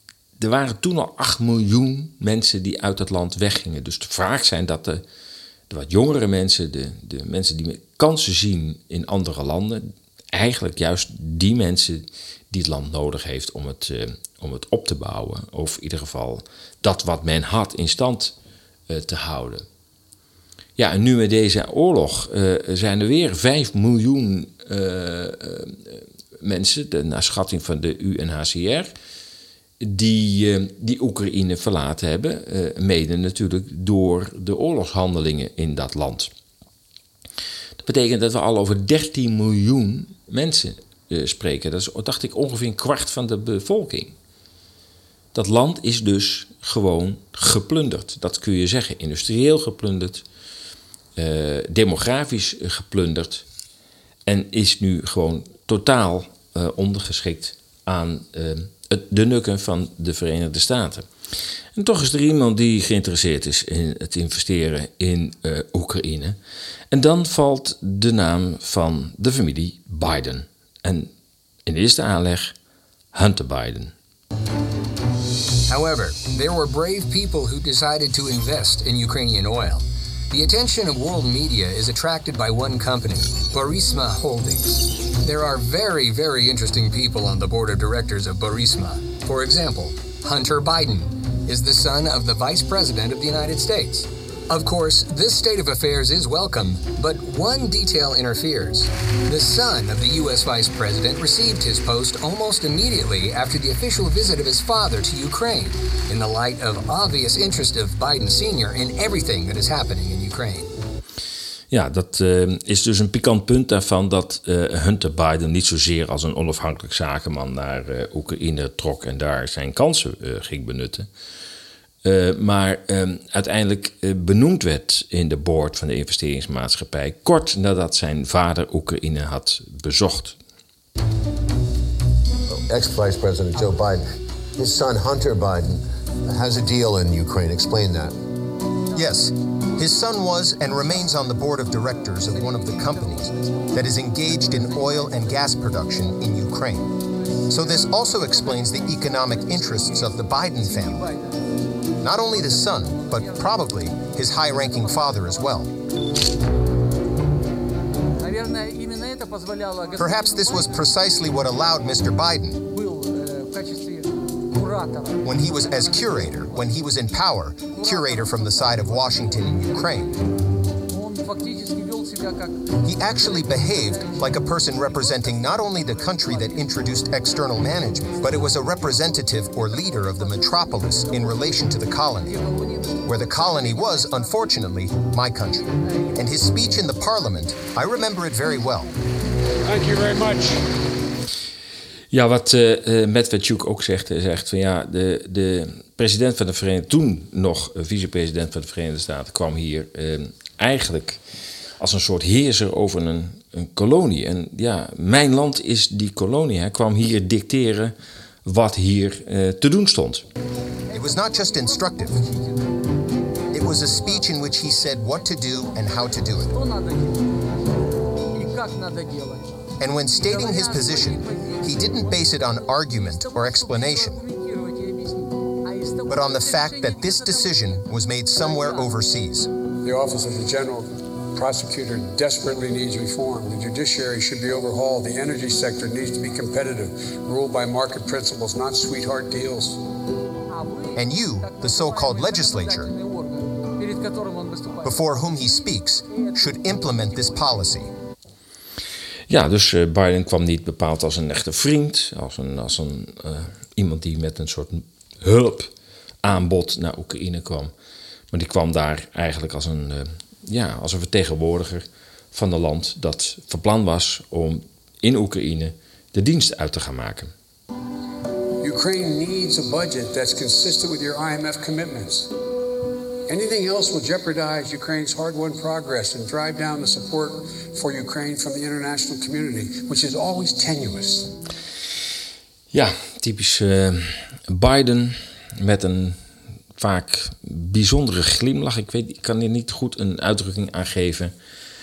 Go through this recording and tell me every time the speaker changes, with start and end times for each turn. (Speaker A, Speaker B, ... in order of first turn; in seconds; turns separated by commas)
Speaker A: 0.4-5.0, Speaker A: 5.7-18.3, Speaker A: 18.9-19.6, Speaker A: 20.8-28.9, Speaker A: 29.8-36.3, Speaker A: 37.8-44.1, Speaker A: 45.3-50.2, Speaker A: 51.2-53.5, Speaker A: 54.3-61.1, Speaker A: 61.8-66.4, Speaker A: 66.9-71.1, Speaker A: 71.7-72.5, Speaker A: 73.1-73.9, Speaker B: 75.7-110.7, Speaker A: 111.7-121.1, Speaker A: 122.0-130.4, Speaker C: 132.5-134.0, Speaker C: 134.6-138.2, Speaker D: 138.9-146.9, Speaker D: 147.5-151.1, Speaker D: 152.0-155.7, Speaker D: 160.0-162.7, Speaker D: 165.2-170.2, Speaker D: 172.8-182.4, Speaker D: 183.1-188.9, Speaker E: 189.6-190.6, Speaker A: 192.1-201.2, Speaker A: 201.8-210.3, Speaker D: 210.9-212.2, Speaker D: 213.5-216.6, Speaker D: 219.8-224.2, Speaker D: 226.1-229.5, Speaker E: 229.8-239.8, Speaker D: 240.9-242.9, Speaker D: 244.8-247.9, Speaker A: 249.3-255.7, Speaker A: 256.2-257.7, Speaker A: 258.3-267.3, Speaker E: 268.6-272.3, Speaker E: 273.3-281.3, Speaker A: 282.7-286.2, Speaker A: 286.8-291.3